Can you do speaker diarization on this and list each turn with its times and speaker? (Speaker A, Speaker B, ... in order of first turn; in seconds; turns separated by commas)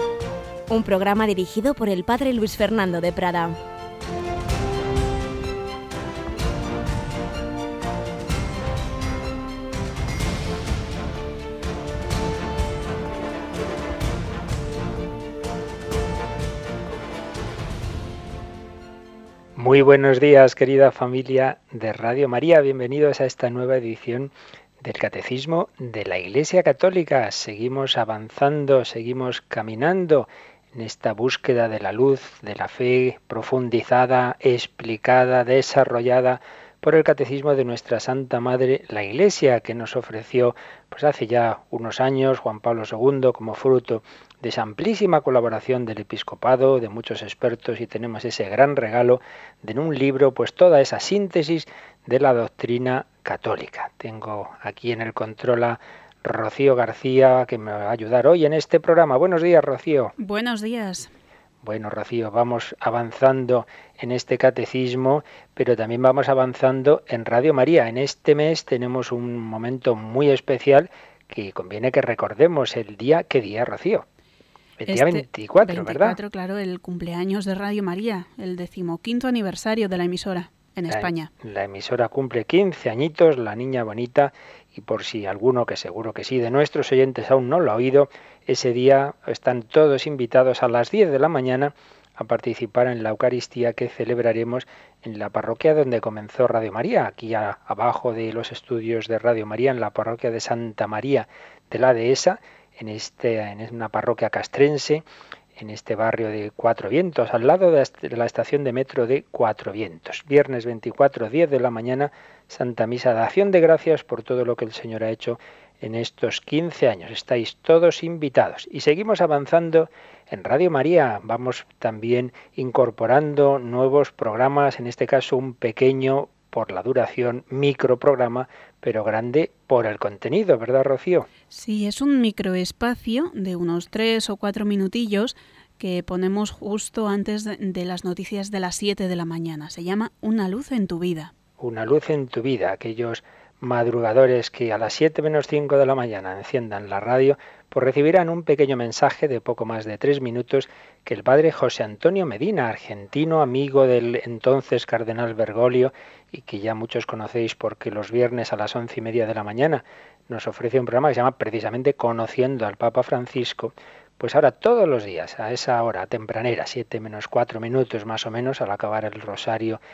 Speaker A: 0.7-3.6, Speaker B: 19.6-60.1, Speaker C: 60.2-61.1, Speaker B: 61.6-74.1, Speaker B: 74.8-76.2, Speaker C: 74.8-81.3, Speaker B: 80.9-105.0, Speaker B: 105.6-131.3, Speaker C: 131.5-141.3, Speaker B: 141.6-169.8